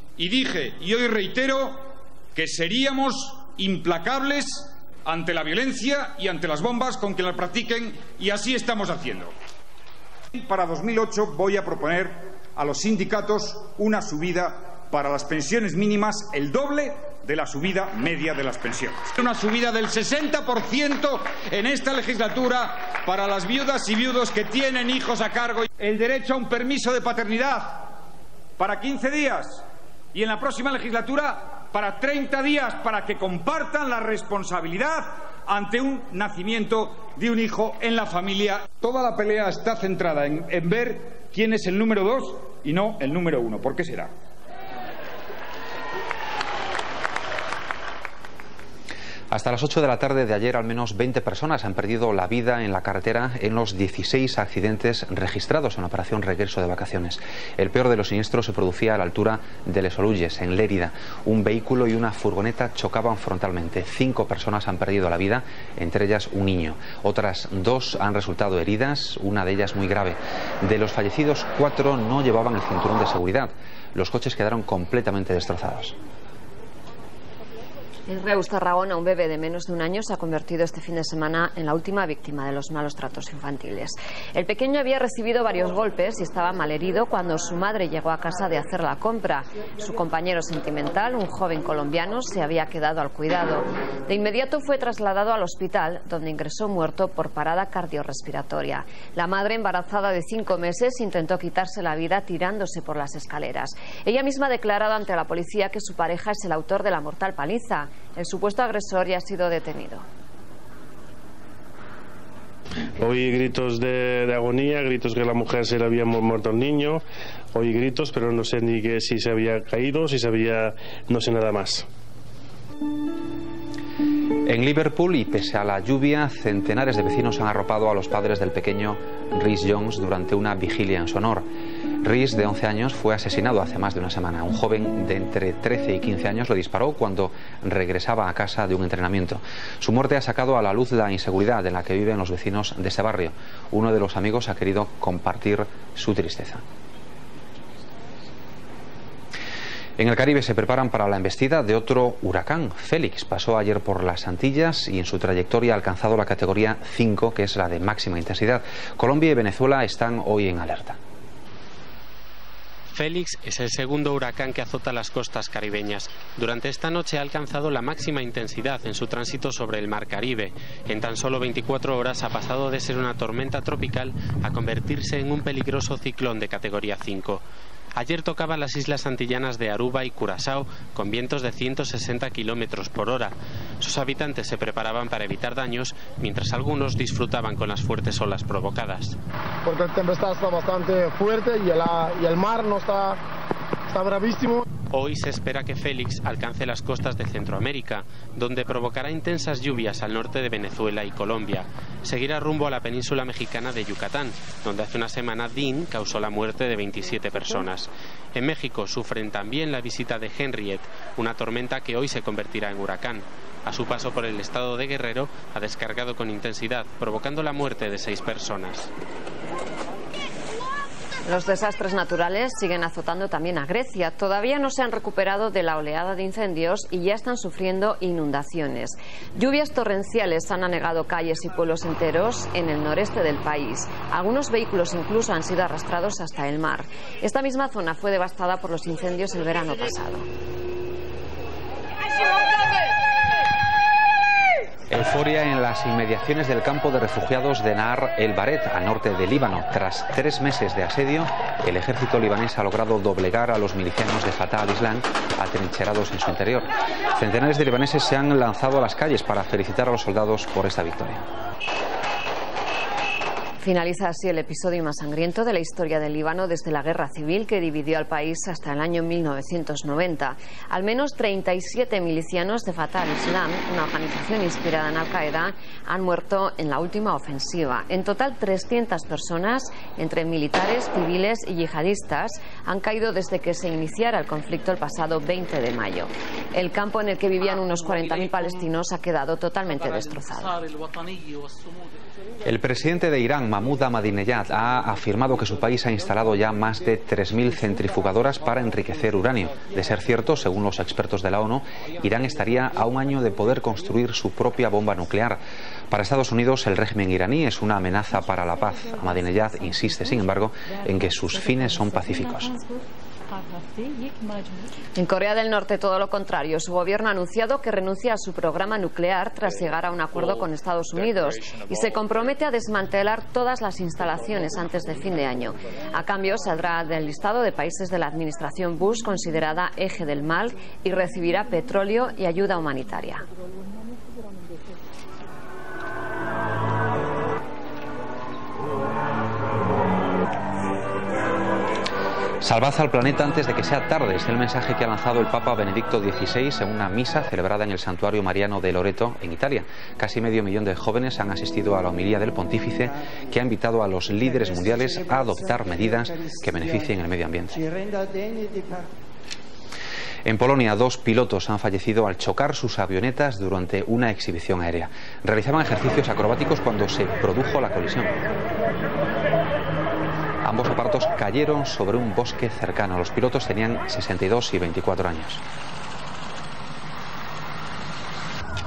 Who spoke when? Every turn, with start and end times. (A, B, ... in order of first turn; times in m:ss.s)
0:00.2-0:09.3 A
0:10.3-0:27.9 A
0:28.6-0:44.1 A
0:49.3-1:15.9 B
1:18.1-1:50.0 C
1:53.0-1:57.0 D
1:57.5-2:01.8 D
2:04.4-2:11.4 B
2:12.0-2:26.6 B
2:30.0-2:41.0 B
2:42.9-2:57.4 E
2:58.0-3:09.2 E
3:09.6-3:13.2 F
3:13.9-3:14.6 F
3:14.9-3:38.9 E
3:41.2-4:00.2 C
4:04.9-4:21.2 B
4:23.6-4:50.6 C
4:52.4-5:12.5 B
5:15.0-5:33.2 C
5:42.4-5:57.6 B
6:00.2-6:08.2 B
6:10.4-6:15.4 B